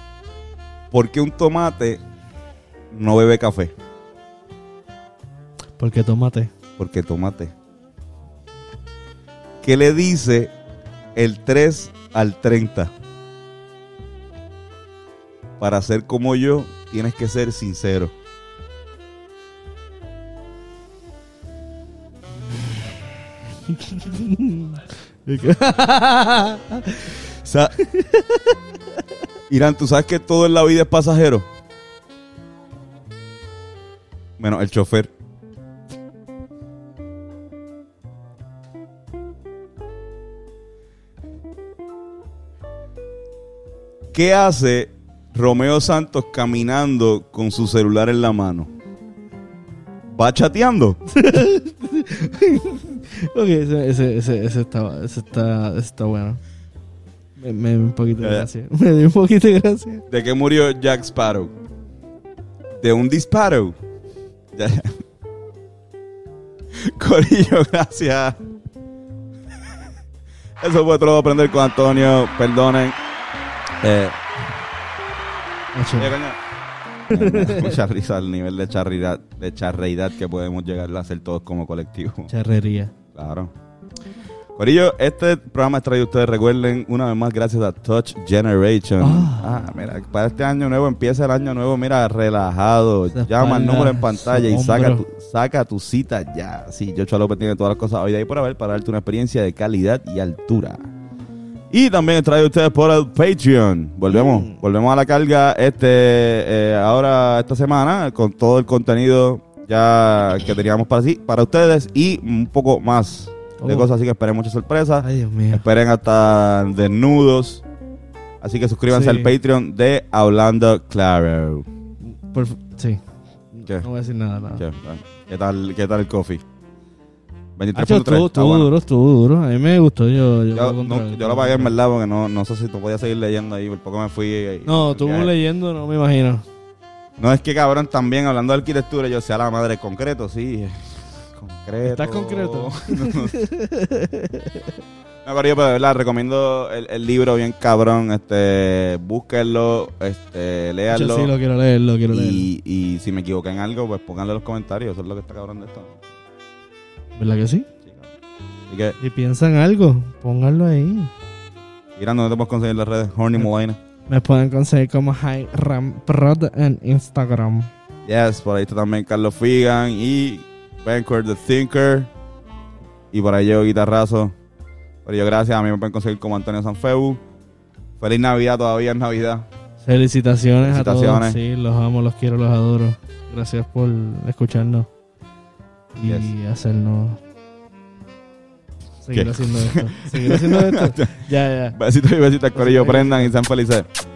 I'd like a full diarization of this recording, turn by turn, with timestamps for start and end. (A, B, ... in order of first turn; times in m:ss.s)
0:00.9-0:02.0 A
0:02.9-0:03.7 A
0:05.8-0:06.5 B
0:06.8-0:07.5 A
0:09.6-0:10.5 A
0:11.2-0:12.9 A
0:15.6-0:18.1 A
0:22.4-0:22.8 B
0:23.7-0:27.2 B
0:27.4-0:27.8 A
0:27.8-0:29.0 B
0:29.5-0:31.5 A
0:34.4-0:35.1 A
0:44.1-0:48.7 A
0:50.1-0:51.0 A
0:51.1-0:56.4 B
0:57.4-1:00.0 B
0:58.2-0:58.5 A
1:00.1-1:01.5 A
1:02.8-1:03.8 A
1:04.5-1:05.0 A
1:06.7-1:08.4 A
1:10.6-1:13.0 A
1:13.8-1:14.2 A
1:15.7-1:16.1 B
1:16.0-1:16.4 A
1:17.1-1:22.3 A
1:17.1-1:17.8 B
1:22.3-1:22.9 B
1:23.1-1:23.5 A
1:24.6-1:40.8 A
1:29.0-1:29.6 B
1:33.1-1:35.0 B
1:41.7-1:57.6 A
1:44.1-1:44.6 B
1:53.6-1:53.9 B
1:55.0-1:55.6 B
1:58.4-2:01.6 A
1:58.9-1:59.3 B
2:02.0-2:04.6 B
2:04.5-2:06.4 A
2:07.6-2:08.7 A
2:07.7-2:11.7 B
2:10.5-2:15.3 A
2:14.6-2:16.4 B
2:17.2-2:23.4 A
2:21.8-2:24.8 B
2:25.2-2:31.3 A
2:30.9-2:32.5 B
2:32.1-2:36.0 A
2:37.2-2:37.7 B
2:37.8-2:38.1 A
2:38.7-2:39.0 A
2:39.0-2:41.1 B
2:42.0-2:43.8 A
2:44.1-2:47.7 B
2:48.0-2:52.1 A
2:53.1-2:54.3 A
2:55.0-2:57.2 A
2:58.0-2:59.4 A
2:59.8-3:04.9 B
3:00.6-3:01.4 A
3:05.9-3:07.2 B
3:09.0-3:11.8 B
3:09.1-3:13.8 A
3:12.5-3:13.3 B